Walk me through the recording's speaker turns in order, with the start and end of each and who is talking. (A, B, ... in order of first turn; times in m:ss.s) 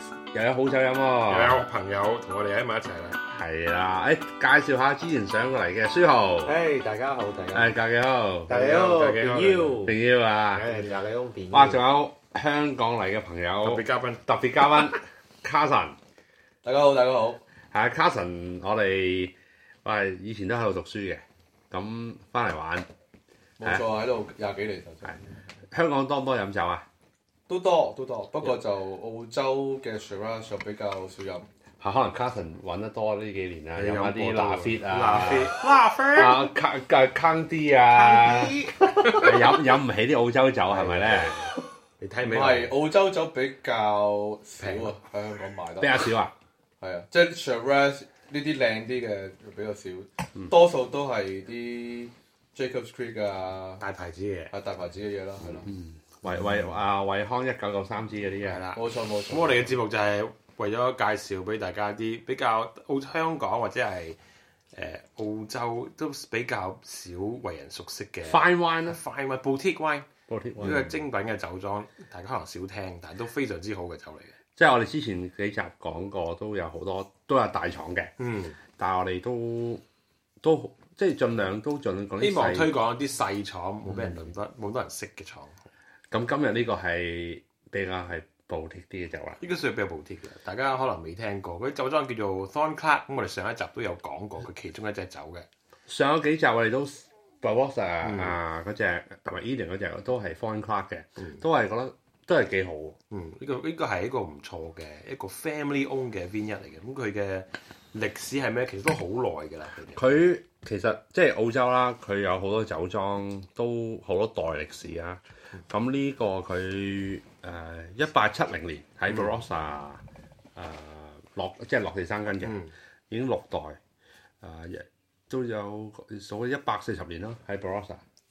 0:00.3-0:01.6 A
0:01.3-0:03.2 B
0:03.3-0:06.6 A
0:06.4-0:07.8 C
0:07.5-0:08.6 A
0:08.5-0:10.0 C
0:08.5-0:09.9 B
0:09.8-0:10.7 A
0:10.5-0:11.8 C
0:11.5-0:16.0 A
0:13.6-0:14.2 B
0:16.6-0:17.4 D
0:17.7-0:22.9 A
0:23.6-0:25.2 D
0:25.0-0:26.9 A
0:27.5-0:31.5 D
0:31.8-0:35.6 A
0:33.8-0:36.5 B
0:36.2-0:41.4 A
0:38.0-0:39.6 B
0:40.7-0:42.8 B
0:42.3-0:46.0 D
0:44.6-0:44.9 B
0:45.8-0:46.3 A
0:46.8-0:53.8 D
0:53.8-0:54.5 B
0:54.5-0:55.7 D
0:55.7-0:58.6 A
0:58.4-1:04.2 B
0:58.7-0:59.8 D
1:04.7-1:14.4 B
1:08.2-1:09.0 A
1:10.3-1:11.0 A
1:14.6-1:18.1 A
1:18.2-1:18.6 B
1:18.8-1:19.8 A
1:20.4-1:22.8 A
1:22.2-1:25.7 B
1:23.9-1:24.2 A
1:26.1-1:29.4 A
1:29.4-1:35.5 B
1:35.9-1:43.0 A
1:38.0-1:38.4 B
1:43.1-1:50.0 B
1:49.9-2:00.0 A
2:00.6-2:03.8 A
2:02.4-2:02.7 B
2:04.4-2:08.0 A